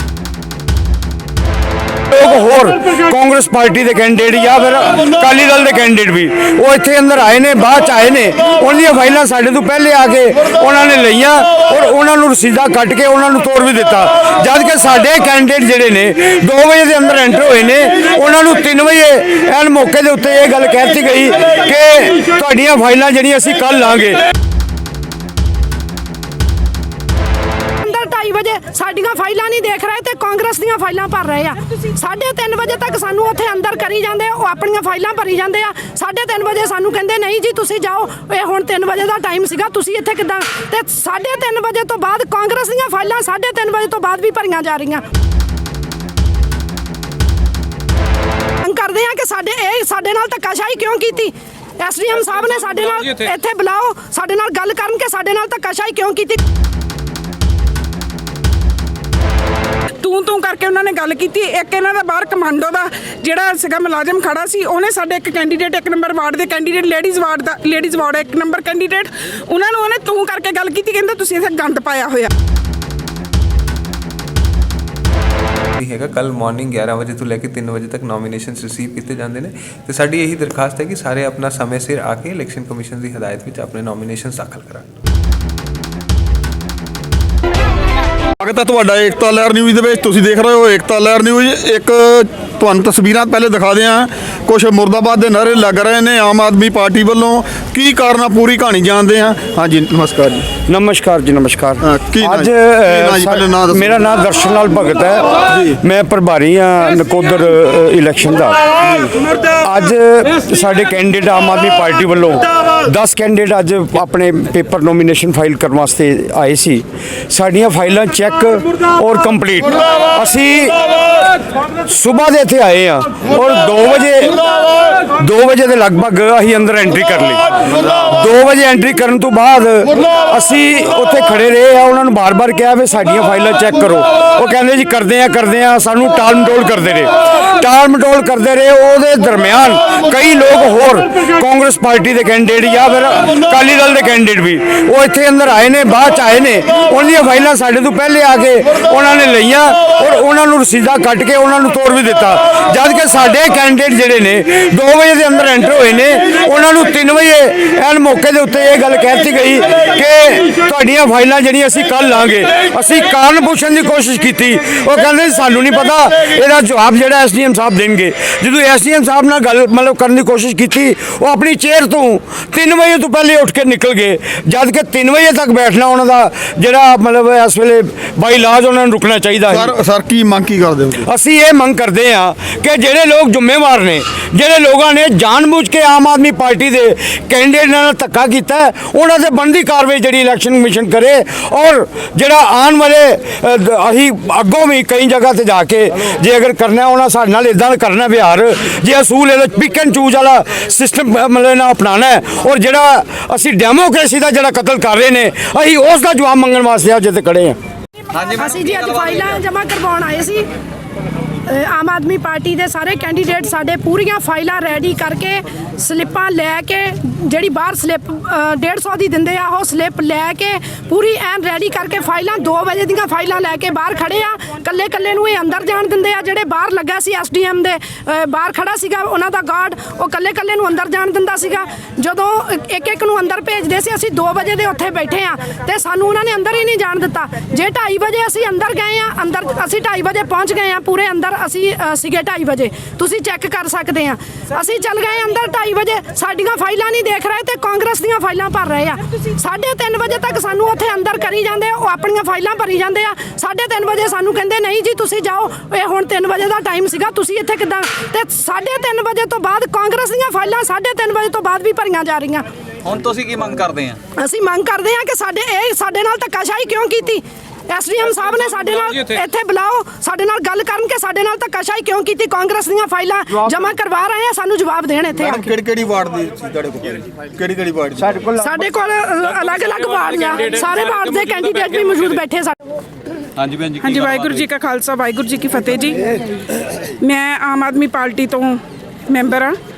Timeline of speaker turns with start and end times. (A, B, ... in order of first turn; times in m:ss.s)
0:02.1-0:24.2 A
0:27.8-0:45.0 B
0:48.6-0:56.4 B
1:00.0-1:12.3 C
1:15.8-1:24.8 D
1:28.4-1:40.5 E
1:40.7-1:48.7 A
1:41.8-1:44.0 E
1:48.8-1:49.1 E
1:49.6-2:00.8 A
2:01.9-2:04.4 A
2:05.1-2:07.4 A
2:08.0-2:59.7 A
2:59.5-3:01.0 E
3:01.0-3:27.6 A
3:28.1-3:29.0 F
3:28.3-3:30.5 B
3:31.4-4:22.4 B
4:22.8-4:24.0 F
4:24.2-4:35.4 B
4:35.2-4:38.2 E
4:38.4-4:42.6 B
4:43.4-4:43.8 F
4:43.7-4:46.2 C
4:47.0-4:49.6 C